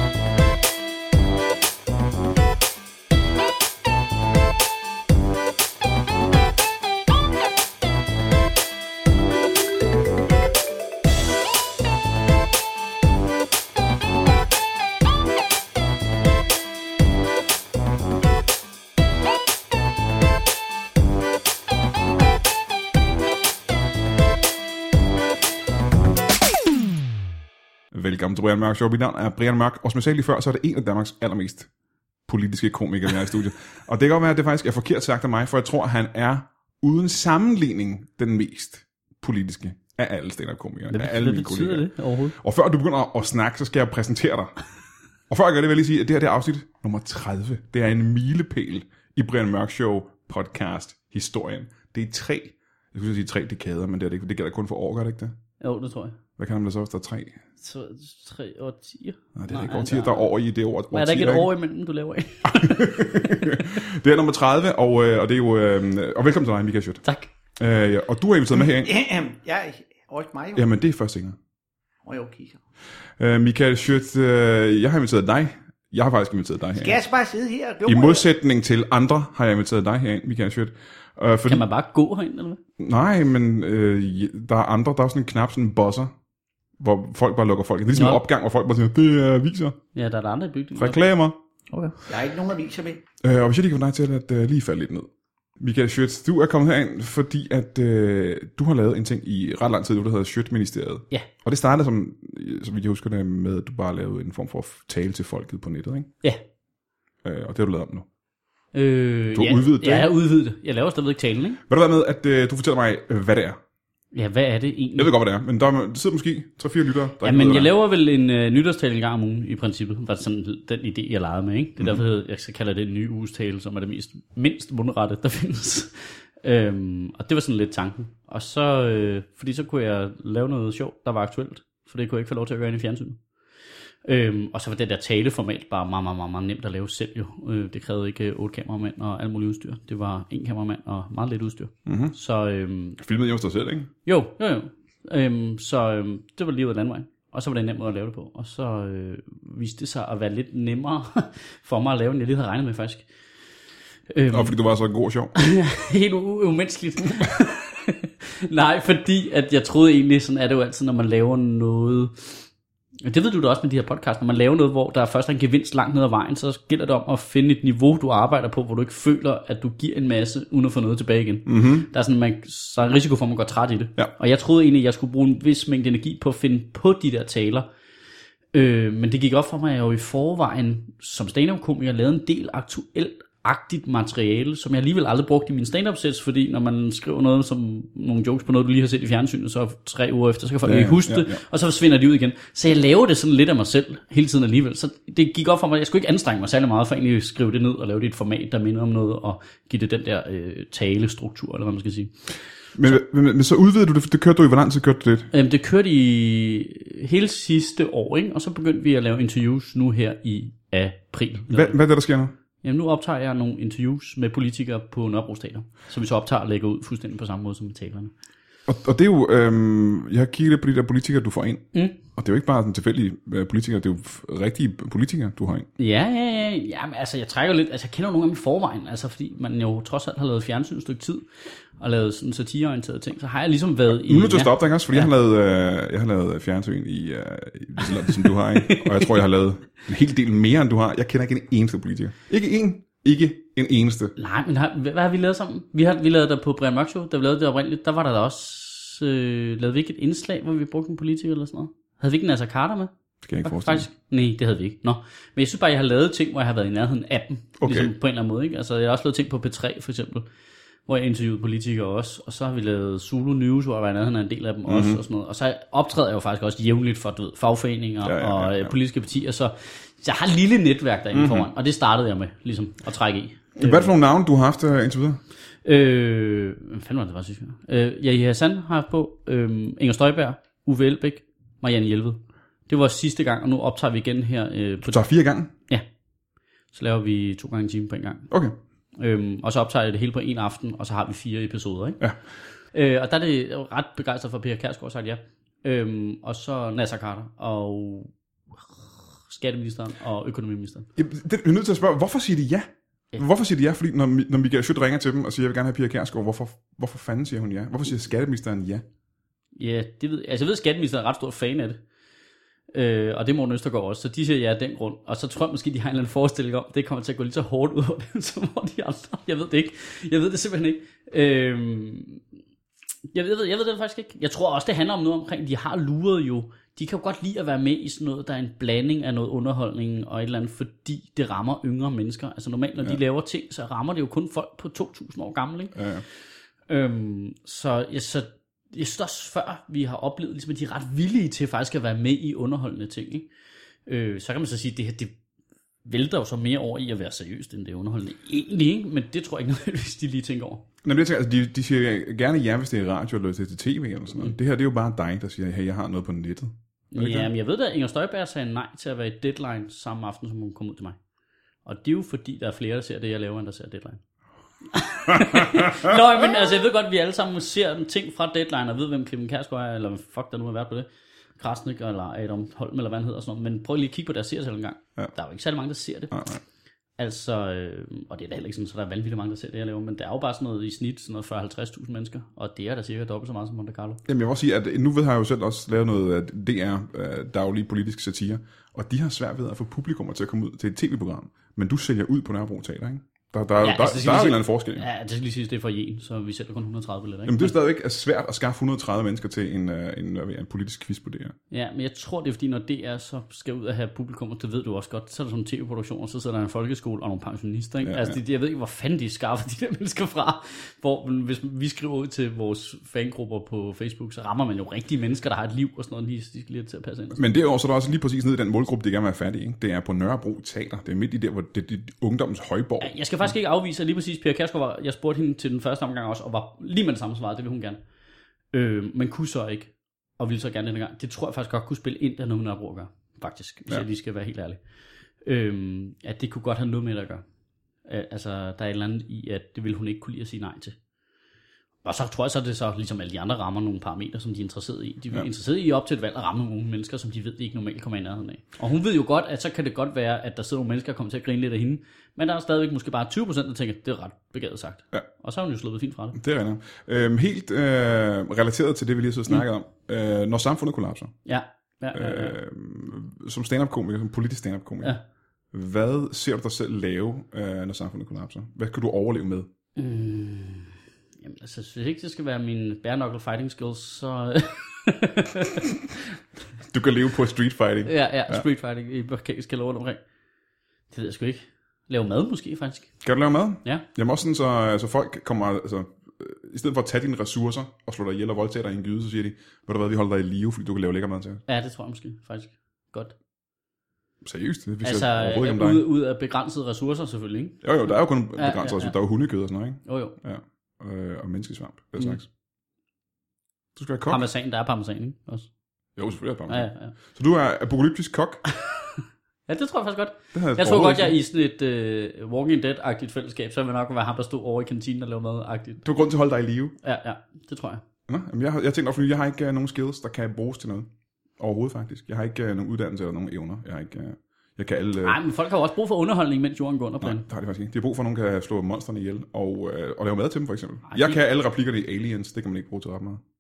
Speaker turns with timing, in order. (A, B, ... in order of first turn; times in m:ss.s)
0:27.9-0:31.7 A
0:32.3-0:44.6 A
0:40.9-0:42.4 B
0:45.3-0:55.4 A
0:55.6-0:56.2 B
0:56.4-0:57.4 A
0:57.6-1:00.3 B
0:59.4-1:01.5 A
1:00.9-1:03.7 B
1:02.5-1:07.0 A
1:07.0-1:07.3 B
1:07.6-1:08.9 A
1:08.5-1:10.6 C
1:10.6-1:11.4 A
1:12.0-1:12.6 C
1:13.2-1:17.0 A
1:16.8-1:18.2 C
1:17.9-1:21.7 A
1:21.5-1:22.6 B
1:22.8-1:26.1 A
1:26.8-1:29.8 A
1:27.9-1:28.2 B
1:29.9-1:31.0 B
1:30.8-1:31.4 A
1:31.7-1:32.0 B
1:32.1-1:33.0 C
1:33.2-1:35.1 A
1:35.6-1:46.1 A
1:47.2-1:48.1 A
1:48.7-1:51.6 B
1:49.4-1:50.1 A
1:51.7-1:53.6 A
1:54.1-1:55.1 B
1:55.0-1:57.7 A
1:57.2-2:13.2 B
2:14.0-2:23.0 B
2:21.9-2:22.2 A
2:23.0-2:23.9 A
2:24.1-2:33.0 B
2:34.1-2:34.6 B
2:34.3-2:35.4 A
2:35.4-2:42.4 B
2:43.0-2:57.7 B
2:51.5-2:51.9 A
2:58.5-3:22.1 B
3:10.6-3:11.4 A
3:22.8-3:25.3 A
3:25.3-3:31.8 B
3:31.5-3:32.3 A
3:32.6-3:38.1 B
3:38.7-3:45.7 A
3:45.8-3:55.1 B
3:53.9-4:04.2 A
3:57.8-3:59.1 B
4:04.2-4:12.9 B
4:13.2-4:13.9 A
4:13.4-4:20.3 B
4:17.6-4:17.9 A
4:20.9-4:33.9 B
4:24.7-4:25.0 A
4:28.0-4:28.8 A
4:31.1-4:31.5 A
4:33.6-4:35.2 A
4:35.6-4:45.0 B
4:44.8-4:45.5 A
4:46.7-4:48.3 B
4:48.3-4:48.6 A
4:49.0-4:52.0 B
4:52.7-4:58.1 B
4:59.3-5:00.9 B
5:01.0-5:08.8 A
5:09.6-5:11.8 B
5:12.7-5:22.2 B
5:23.1-5:35.8 B
5:35.7-5:36.0 A
5:36.7-5:43.3 B
5:43.9-5:45.1 B
5:45.8-5:50.6 B
5:50.8-5:57.3 A
5:56.9-6:01.0 B
6:01.6-6:04.0 B
6:04.7-6:10.9 B
6:05.1-6:05.9 A
6:11.4-6:16.2 B
6:16.1-6:16.4 A
6:17.0-6:24.0 B
6:24.1-6:34.9 A
6:33.6-6:37.5 B
6:37.3-6:41.4 A
6:41.5-6:57.2 B
6:47.8-6:48.2 A
6:57.2-7:03.0 A
7:02.8-7:07.8 B
7:08.5-7:14.6 B
7:15.2-7:17.2 B
7:17.9-7:20.8 B
7:21.8-7:36.2 B
7:36.2-7:41.1 A
7:41.3-7:42.4 B
7:41.9-7:45.0 A
7:45.5-7:49.5 A
7:49.8-7:55.7 B
7:56.7-7:58.4 A
7:57.9-8:00.0 B
8:00.9-8:02.9 B
8:03.0-8:11.4 A
8:11.5-8:13.2 B
8:14.2-8:15.8 A
8:14.8-8:17.7 B
8:17.6-8:22.3 A
8:18.4-8:19.0 B
8:19.8-8:20.2 B
8:23.8-8:24.2 A
8:24.1-8:25.5 B
8:26.0-8:28.4 A
8:26.5-8:26.9 B
8:28.6-8:35.8 B
8:30.3-8:31.2 A
8:35.8-8:36.8 A
8:36.8-8:37.8 B
8:38.1-8:40.9 A
8:41.4-8:45.2 A
8:45.0-8:47.2 B
8:47.0-8:53.2 A
8:50.9-8:51.2 B